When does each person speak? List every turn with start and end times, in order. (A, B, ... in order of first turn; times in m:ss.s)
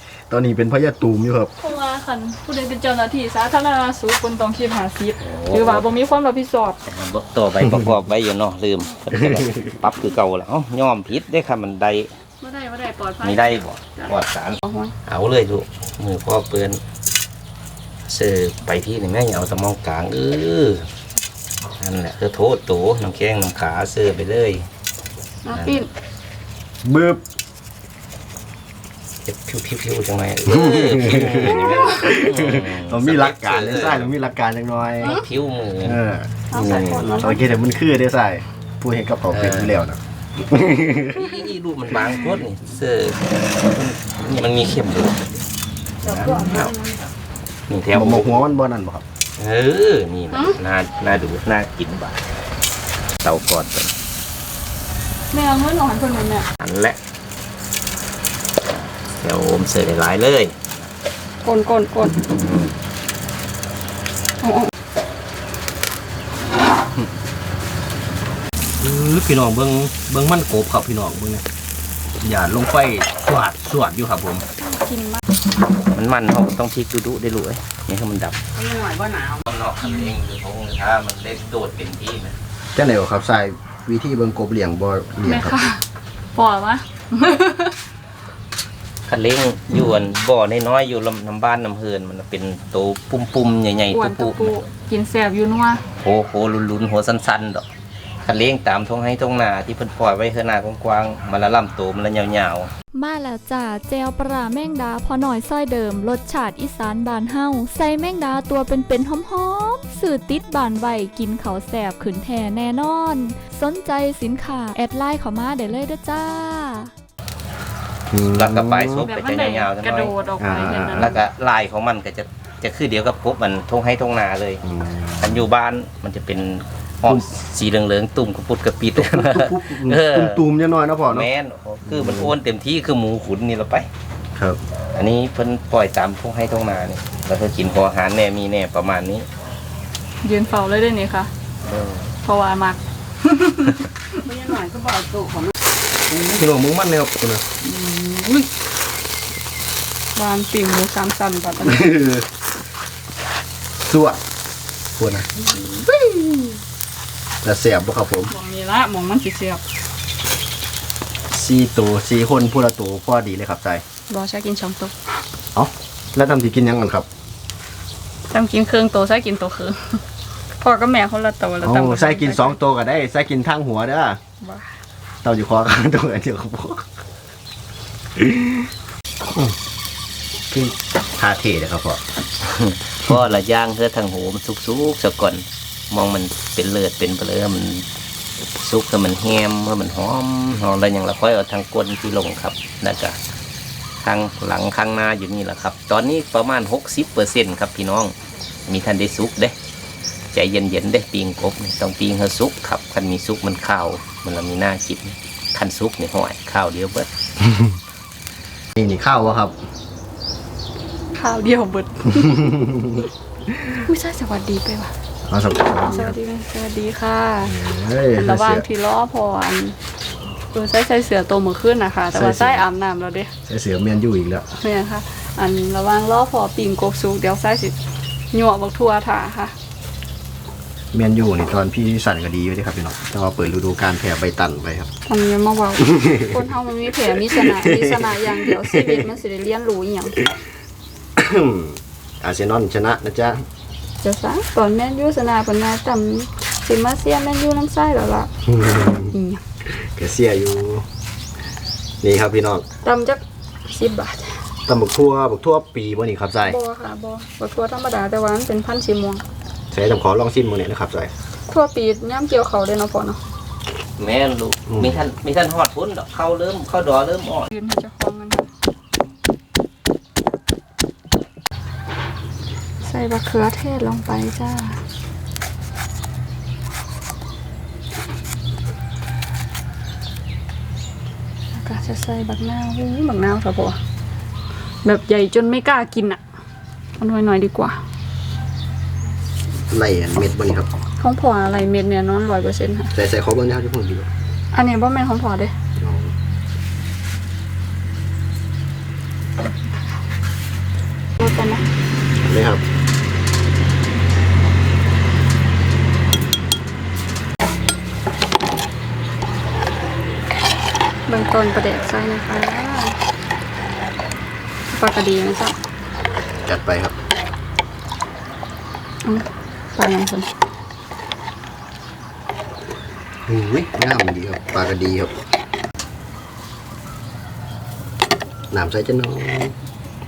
0:00.3-0:01.5 A
0:01.6-0:06.8 B
0:05.2-0:05.9 C
0:06.9-0:12.1 C
0:09.2-0:09.6 A
0:12.4-0:15.0 B
0:13.2-0:16.8 C
0:18.1-0:20.8 C
0:21.8-0:24.6 C
0:25.4-0:25.9 B
0:25.5-0:25.8 C
0:26.8-0:27.2 A
0:29.3-0:34.1 C
0:30.5-0:35.2 A
0:35.0-0:36.0 C
0:35.8-0:41.4 A
0:36.5-0:37.5 B
0:36.5-0:37.1 C
0:39.3-0:39.8 C
0:41.0-0:45.2 C
0:46.0-0:46.7 C
0:46.3-0:46.9 B
0:47.7-0:48.4 C
0:47.9-0:49.0 A
0:49.4-0:52.2 C
0:50.3-0:50.6 B
0:53.2-0:53.9 C
0:55.3-0:56.5 B
0:56.6-0:57.0 C
0:58.7-1:00.5 C
1:01.4-1:02.2 B
1:02.3-1:02.7 C
1:04.4-1:04.7 B
1:08.8-1:11.4 A
1:12.2-1:14.4 A
1:14.6-1:15.2 B
1:15.9-1:18.4 C
1:18.5-1:19.4 D
1:19.5-1:22.4 C
1:22.8-1:25.6 A
1:25.2-1:25.8 B
1:26.4-1:27.8 B
1:29.1-1:34.5 C
1:33.9-1:35.8 B
1:36.0-1:37.7 C
1:38.2-1:42.7 C
1:43.0-1:56.9 E
1:58.1-1:59.1 A
1:58.3-2:00.1 C
1:59.0-2:01.2 B
2:00.4-2:01.2 A
2:00.7-2:04.6 C
2:04.6-2:05.5 A
2:05.2-2:10.4 C
2:09.0-2:11.3 A
2:11.1-2:13.9 C
2:11.9-2:12.3 A
2:14.9-2:19.3 C
2:20.2-2:21.3 B
2:21.7-2:22.1 C
2:22.2-2:23.9 B
2:24.2-2:25.5 D
2:26.1-2:26.4 D
2:26.3-2:27.4 A
2:27.6-2:28.5 D
2:30.2-2:31.9 B
2:31.6-2:32.3 A
2:33.8-2:34.2 A
2:35.0-2:36.6 A
2:37.4-2:38.3 A
2:38.3-2:39.6 B
2:41.3-2:43.8 A
2:44.1-2:45.1 B
2:45.6-2:47.1 A
2:48.3-2:50.0 B
2:50.6-2:52.6 B
2:51.6-2:54.2 A
2:54.4-2:54.8 B
2:55.2-2:56.9 A
2:58.2-2:58.7 A
3:00.5-3:02.0 A
3:02.4-3:07.8 C
3:08.6-3:13.2 C
3:14.0-3:18.2 C
3:18.7-3:19.5 C
3:20.3-3:27.1 C
3:27.4-3:27.7 A
3:28.8-3:29.6 A
3:31.1-3:32.5 B
3:32.4-3:32.8 A
3:33.8-3:34.9 B
3:35.3-3:36.2 A
3:35.7-3:37.6 B
3:37.4-3:38.7 A
3:38.2-3:39.8 B
3:40.5-3:43.3 B
3:42.1-3:42.7 A
3:43.5-3:44.5 A
3:44.5-3:47.8 B
3:48.3-3:49.5 B
3:50.9-3:54.9 A
3:55.1-4:00.2 B
3:55.8-3:56.5 A
3:57.2-3:59.1 A
4:01.2-4:03.4 A
4:04.0-4:08.3 B
4:08.5-4:09.1 A
4:09.1-4:09.4 B
4:09.7-4:10.9 A
4:12.0-4:12.6 A
4:12.8-4:14.4 B
4:14.7-4:16.6 A
4:16.4-4:19.2 B
4:19.7-4:21.1 A
4:21.5-4:23.2 B
4:24.0-4:27.5 C
4:24.7-4:25.0 A
4:27.5-4:28.5 B
4:32.8-4:34.8 B
4:41.5-4:43.8 B
4:44.8-4:46.2 B
4:47.0-4:47.8 B
4:49.7-4:50.7 A
4:51.0-4:52.9 B
4:53.0-4:54.1 A
4:54.5-4:55.5 B
4:55.8-4:56.1 A
5:01.2-5:01.6 B
5:02.2-5:02.6 A
5:11.1-5:13.0 B
5:14.7-5:15.6 B
5:16.4-5:16.9 A
5:19.0-5:20.3 B
5:23.3-5:25.2 A
5:28.5-5:29.5 A